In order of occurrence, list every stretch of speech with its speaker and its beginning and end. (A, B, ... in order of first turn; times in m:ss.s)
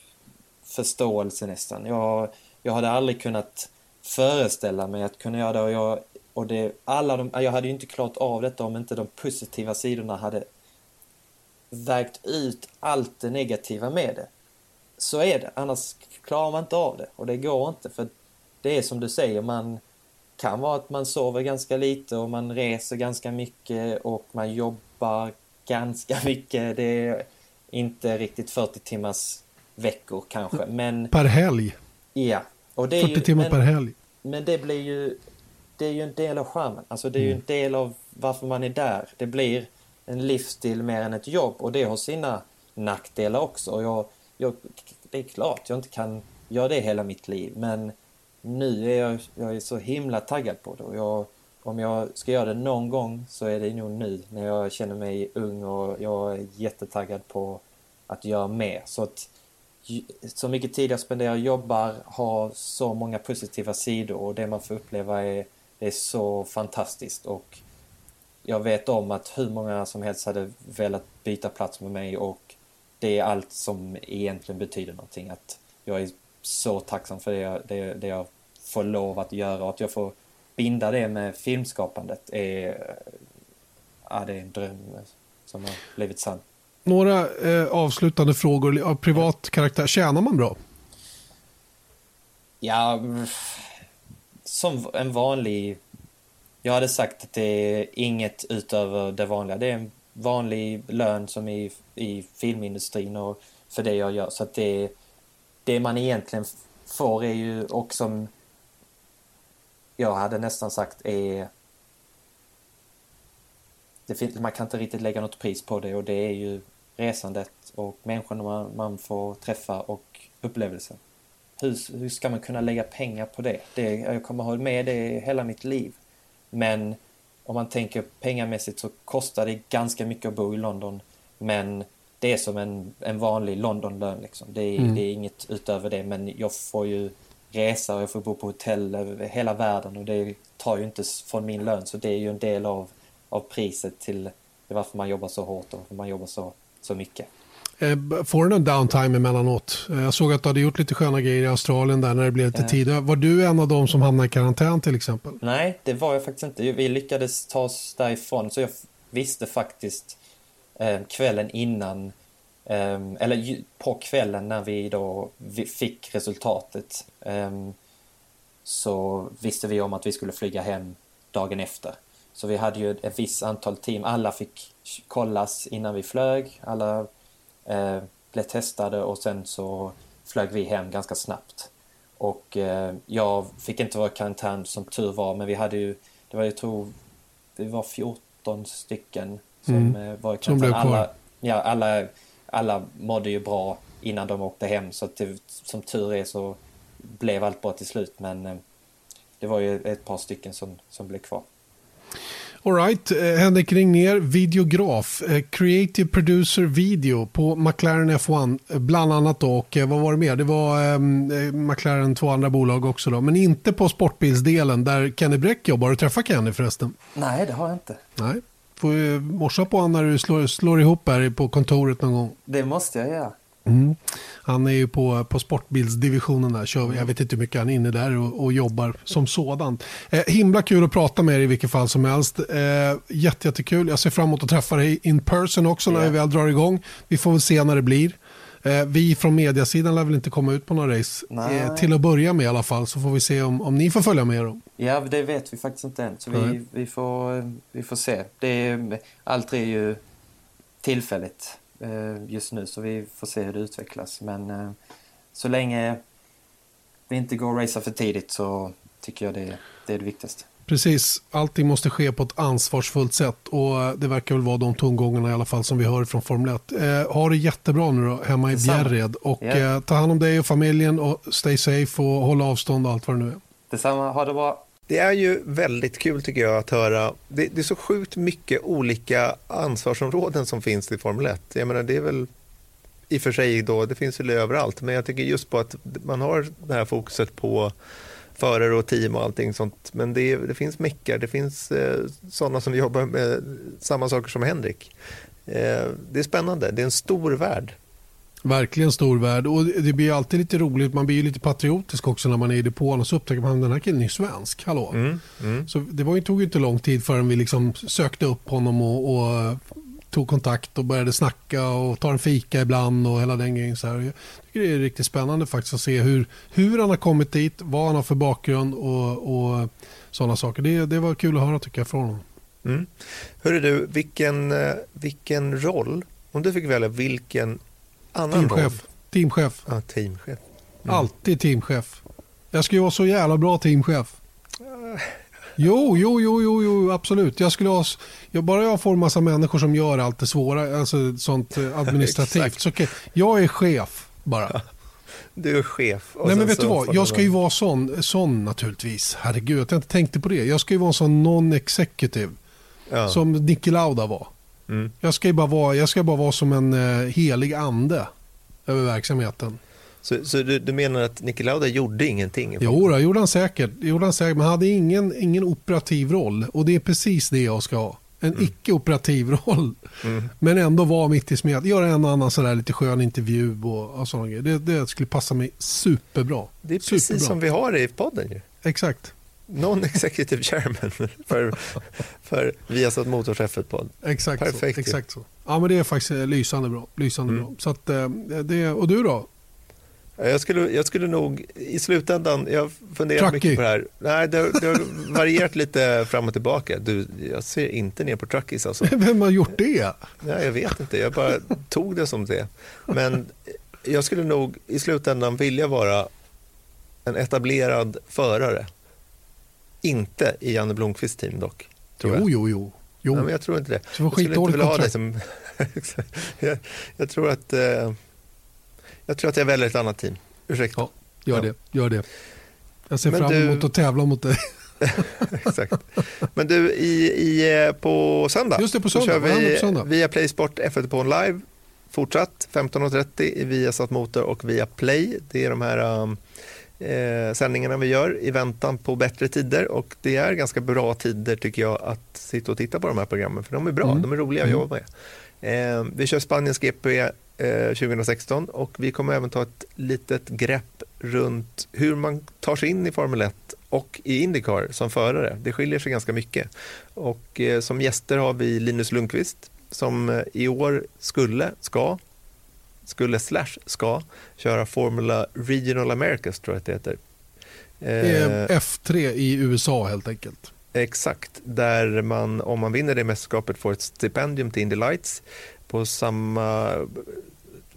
0:00.7-0:10.4 A
0:11.7-0:14.3 A
0:15.0-0:18.1 A
0:18.6-0:19.8 A
0:20.4-0:31.1 A
0:31.1-0:31.8 B
0:32.1-0:33.6 A
0:33.0-0:33.9 B
0:34.2-0:35.2 A
0:35.8-0:59.3 A
0:59.8-1:07.6 A
1:08.4-1:23.2 A
1:24.1-1:26.4 A
1:26.8-1:30.6 B
1:32.6-1:33.7 A
1:34.4-1:35.8 A
1:36.6-1:44.9 A
1:45.6-1:48.3 A
1:50.0-1:51.5 A
1:54.1-2:01.0 A
2:01.6-2:06.0 A
2:06.5-2:27.3 A
2:27.8-2:35.4 B
2:35.4-2:40.2 A
2:40.8-2:42.1 A
2:42.6-2:47.8 A
2:48.6-2:57.1 A
2:57.6-3:06.9 A
3:07.6-3:18.6 A
3:09.7-3:11.1 B
3:19.4-3:21.4 A
3:22.6-3:36.9 B
3:37.1-3:38.0 A
3:38.2-3:42.4 B
3:42.5-3:43.3 A
3:43.6-4:04.6 B
3:55.9-3:56.1 A
4:01.3-4:01.9 A
4:04.8-4:10.0 A
4:10.8-4:14.8 A
4:15.3-4:16.0 A
4:17.1-4:20.5 A
4:20.7-4:33.4 B
4:28.5-4:29.6 A
4:33.7-4:34.6 A
4:34.9-4:42.3 C
4:43.1-4:47.7 C
4:48.4-4:54.9 C
4:55.4-4:57.8 C
4:58.4-5:05.0 B
5:04.9-5:05.7 C
5:05.6-5:22.2 B
5:22.6-5:27.6 C
5:28.1-5:28.8 C
5:28.3-5:29.6 B
5:29.6-5:31.1 C
5:30.8-5:34.1 B
5:34.6-5:35.2 C
5:35.6-5:44.6 B
5:41.8-5:42.6 C
5:45.3-5:47.3 C
5:46.2-5:52.3 B
5:52.9-5:53.2 C
5:53.1-5:54.3 B
5:55.0-5:58.1 B
5:58.6-5:59.6 B
6:00.0-6:02.9 C
6:02.6-6:17.4 B
6:10.0-6:10.3 C
6:16.6-6:18.4 C
6:18.6-6:19.1 B
6:19.5-6:25.0 C
6:24.0-6:29.3 B
6:30.2-6:39.0 C
6:33.2-6:33.6 B
6:38.8-6:40.0 B
6:40.2-6:46.1 C
6:47.0-6:48.7 C
6:49.8-6:52.2 C
6:52.0-6:53.3 B
6:53.1-6:58.0 C
6:53.9-6:54.9 B
6:59.1-7:01.5 C
7:00.8-7:02.0 B
7:02.9-7:05.3 B
7:03.0-7:03.7 C
7:04.8-7:16.2 C
7:08.6-7:09.9 B
7:16.8-7:24.9 C
7:23.8-7:24.6 B
7:25.4-7:42.0 C
7:42.8-7:47.0 C
7:47.8-7:48.5 C
7:48.0-7:50.5 B
7:50.7-7:57.2 C